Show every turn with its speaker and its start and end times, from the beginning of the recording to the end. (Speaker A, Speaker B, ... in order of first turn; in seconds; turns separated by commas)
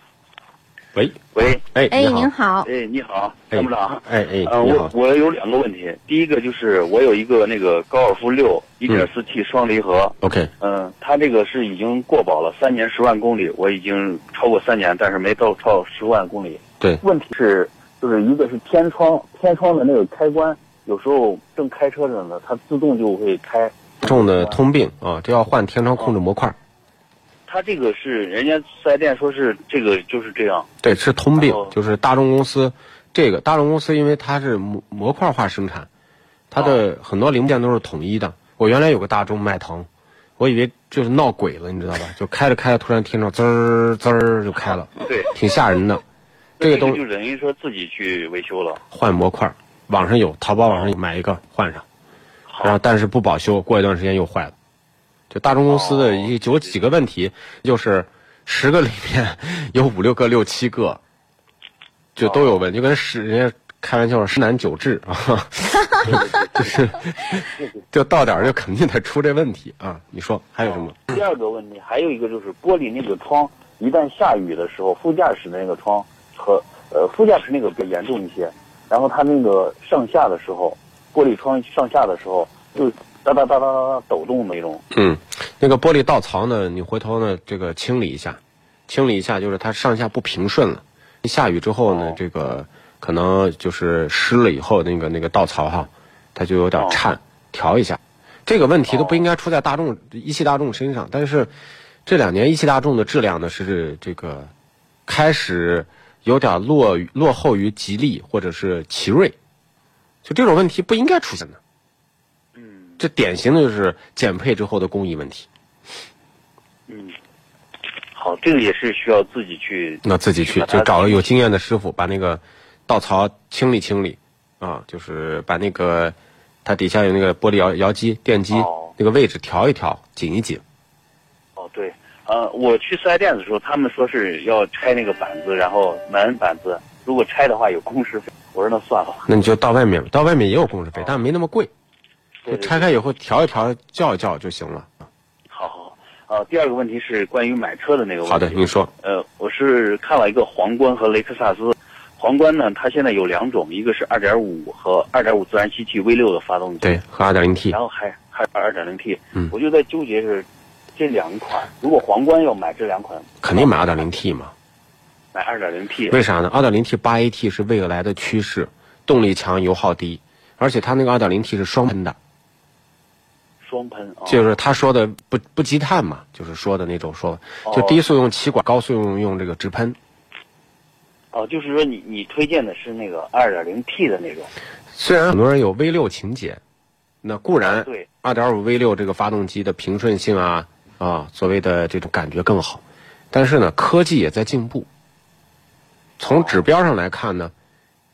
Speaker A: 0.9-2.3, Speaker B: 1.3-1.6, Speaker B: 2.6-24.6, Speaker A: 3.5-4.9, Speaker A: 10.2-10.5, Speaker A: 24.0-26.6, Speaker B: 27.5-30.7, Speaker A: 30.8-35.9, Speaker B: 31.4-31.7, Speaker A: 36.5-39.9, Speaker B: 36.6-36.8, Speaker A: 40.4-46.0, Speaker B: 45.0-45.3, Speaker B: 46.6-48.8, Speaker A: 46.6-47.0, Speaker A: 48.9-51.8, Speaker B: 52.5-52.8, Speaker A: 52.6-54.5, Speaker A: 55.3-61.0, Speaker B: 55.7-56.3, Speaker A: 62.2-71.0, Speaker B: 62.2-62.6, Speaker B: 66.0-66.8, Speaker B: 70.6-84.8, Speaker A: 84.9-101.5, Speaker B: 91.9-92.2, Speaker B: 98.9-99.2, Speaker A: 102.0-104.5, Speaker A: 105.1-109.3, Speaker A: 110.2-111.6, Speaker B: 112.6-113.0, Speaker A: 113.0-115.5, Speaker B: 116.9-117.2, Speaker B: 118.1-121.3, Speaker A: 120.0-130.6, Speaker B: 128.5-128.9, Speaker B: 131.6-139.3, Speaker A: 139.3-141.7, Speaker B: 142.4-142.8, Speaker A: 142.5-144.9, Speaker B: 145.5-157.0, Speaker A: 148.3-148.9, Speaker A: 156.8-157.8, Speaker B: 157.7-164.1, Speaker A: 163.4-164.5, Speaker B: 165.3-166.2, Speaker A: 166.1-172.2, Speaker B: 173.6-174.5, Speaker A: 174.3-180.0, Speaker B: 177.7-178.0, Speaker B: 181.3-184.5, Speaker A: 184.9-186.6, Speaker A: 187.2-194.9, Speaker B: 187.6-188.1, Speaker A: 196.2-197.5, Speaker B: 196.2-196.7